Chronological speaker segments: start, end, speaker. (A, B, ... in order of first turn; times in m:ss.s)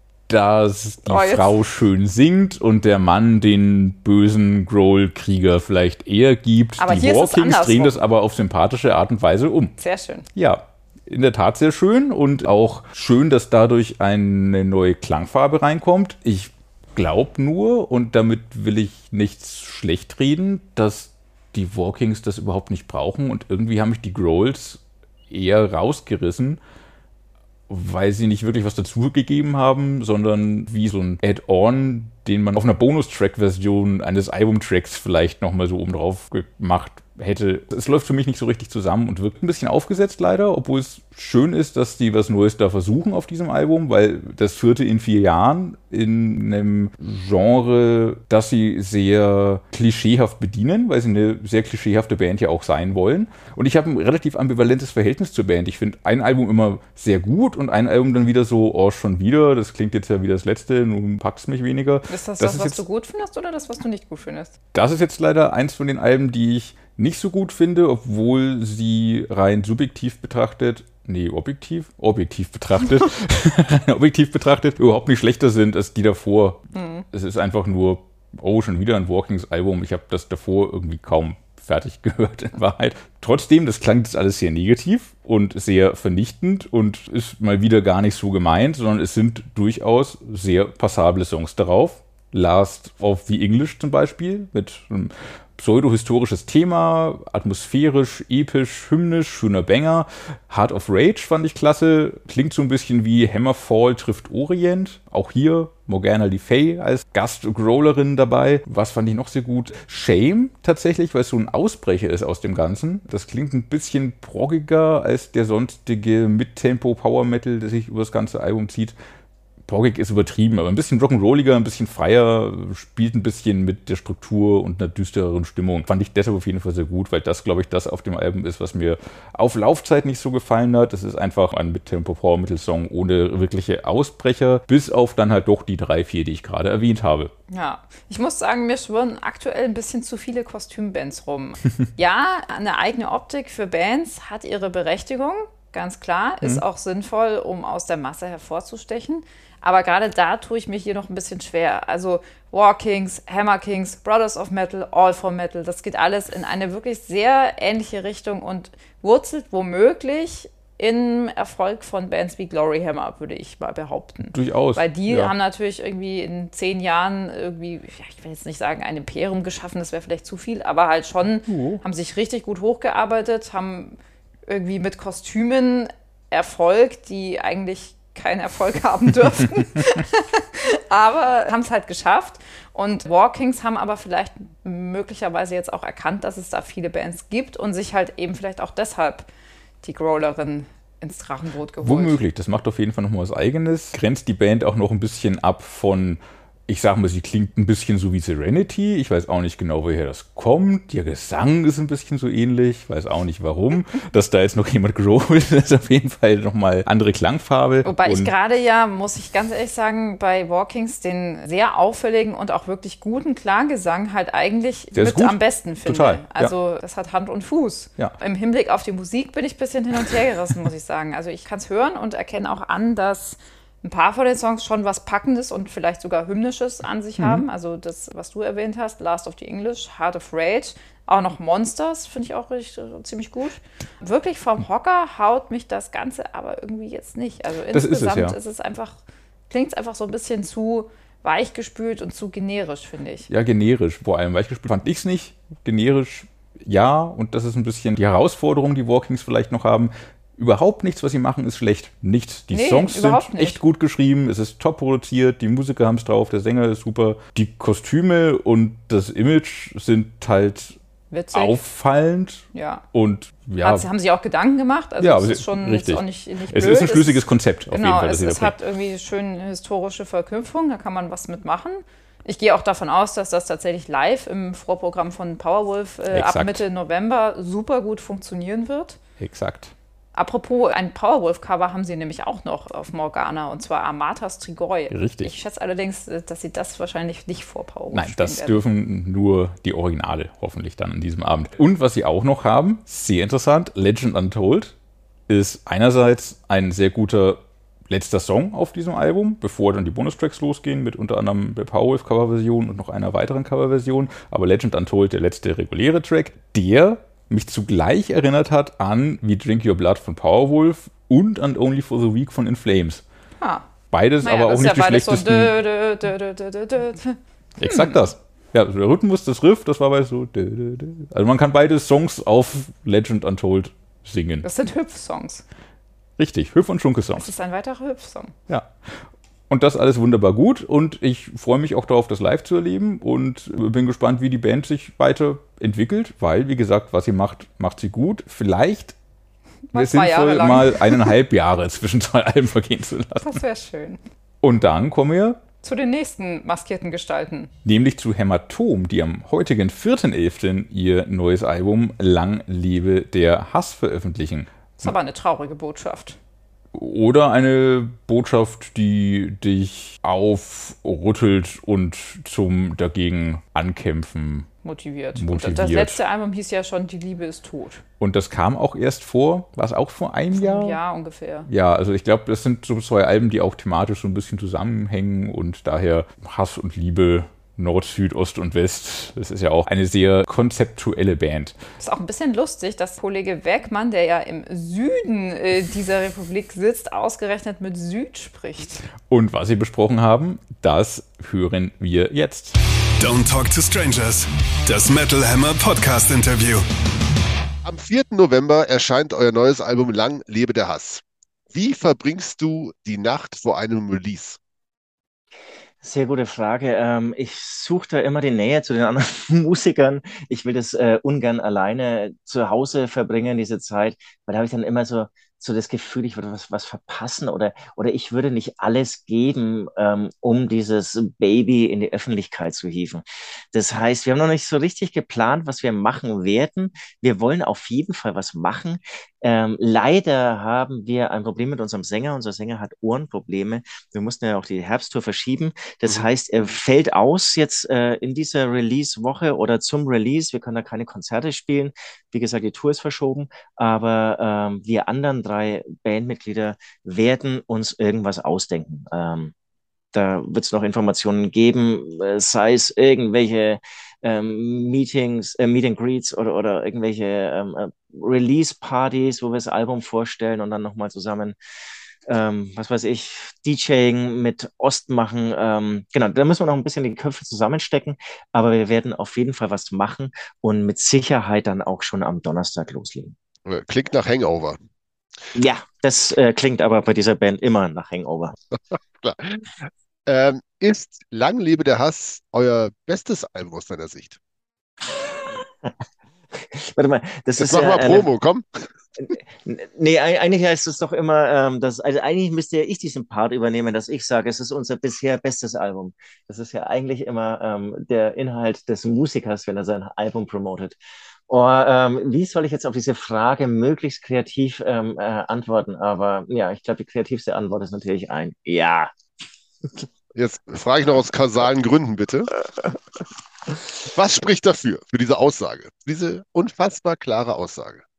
0:00.3-0:09.7 A
0:01.1-0:01.6 B
0:06.8-0:08.0 B
0:09.8-0:10.3 B
0:10.4-0:26.6 A
0:27.7-1:02.8 A
1:02.1-1:04.5 B
1:04.7-1:59.0 A
1:16.8-1:17.0 B
1:59.7-2:17.3 A
2:17.5-3:09.3 B
2:44.3-2:45.3 A
2:51.5-2:51.8 A
3:09.8-3:12.2 B
3:11.8-3:28.3 A
3:27.8-4:03.3 B
3:34.9-3:36.5 A
3:47.2-3:47.4 A
3:57.7-3:58.4 A
4:03.3-4:20.8 A
4:12.5-4:13.6 B
4:21.1-4:21.6 B
4:21.3-4:23.9 A
4:22.5-4:22.8 B
4:23.6-4:39.0 B
4:25.0-4:28.6 A
4:36.1-4:36.6 A
4:39.2-4:39.7 A
4:40.1-4:48.6 B
4:44.9-4:45.3 A
4:47.9-4:54.8 A
4:55.3-5:13.0 A
5:13.4-5:13.6 B
5:13.9-5:15.5 A
5:14.2-5:18.0 B
5:17.6-5:24.5 A
5:24.4-5:25.4 B
5:26.2-5:27.3 A
5:27.2-5:28.4 B
5:28.5-5:29.0 A
5:29.5-5:39.0 A
5:39.7-5:41.1 B
5:39.7-5:43.4 A
5:43.2-5:44.0 B
5:44.4-5:45.4 A
5:45.6-5:47.5 B
5:47.6-5:54.9 A
5:54.8-5:56.2 B
5:56.7-6:04.5 A
6:04.6-6:07.8 B
6:05.1-6:06.0 A
6:08.0-6:10.8 A
6:10.4-6:11.5 B
6:11.5-6:21.6 A
6:21.8-6:28.9 B
6:29.1-6:32.6 A
6:33.0-6:36.6 C
6:37.6-6:44.4 D
6:45.8-7:29.3 E
7:29.9-7:41.4 E
7:42.1-7:53.2 E
7:53.4-7:54.6 D
7:55.3-7:58.4 E
7:58.7-7:59.4 D
8:00.1-8:04.2 D
8:05.2-8:05.7 E
8:06.4-8:08.1 E
8:07.4-8:08.6 D
8:09.1-8:20.8 E
8:21.3-8:28.9 E
8:30.1-8:32.3 D
8:33.9-8:37.8 D